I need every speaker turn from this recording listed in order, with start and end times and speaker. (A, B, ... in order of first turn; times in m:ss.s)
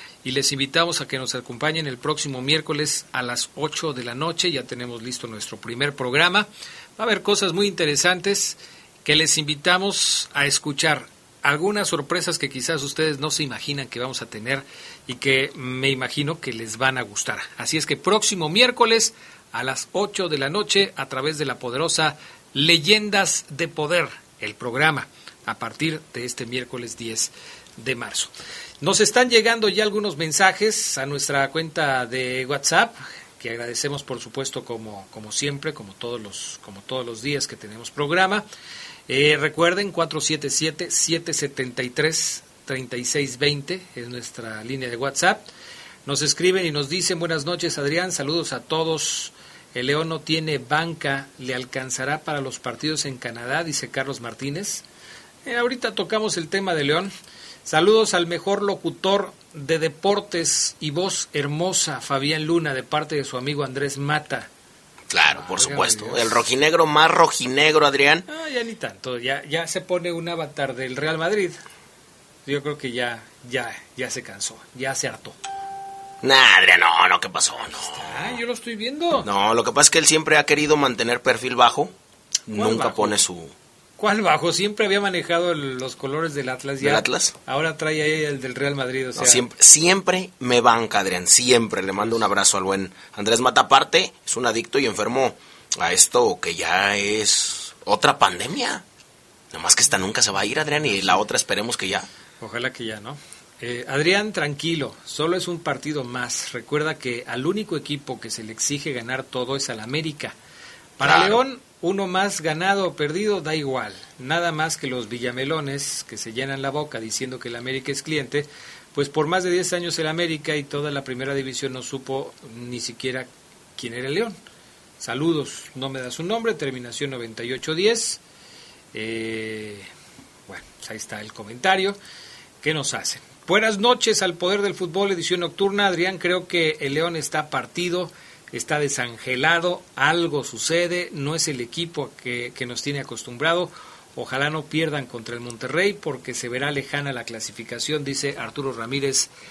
0:00.2-0:38.4 A
0:39.1-0:45.5 A
0:46.1-0:54.8 A
0:55.4-0:57.1 A
0:57.6-1:04.5 A
1:05.1-1:08.3 B
1:05.3-1:06.4 A
1:08.3-1:11.6 A
1:12.5-1:15.4 A
1:16.2-1:18.4 B
1:17.6-1:19.3 A
1:19.2-1:21.9 B
1:22.5-1:23.5 B
1:22.5-1:23.2 A
1:24.0-1:29.4 A
1:26.8-1:27.4 B
1:29.2-1:38.8 B
1:39.5-1:42.1 B
1:40.9-1:41.2 A
1:42.4-1:50.4 A
1:51.0-2:04.4 A
1:51.0-1:51.4 B
2:05.0-2:08.2 A
2:08.9-2:09.9 A
2:10.5-2:12.0 A
2:12.6-2:29.3 A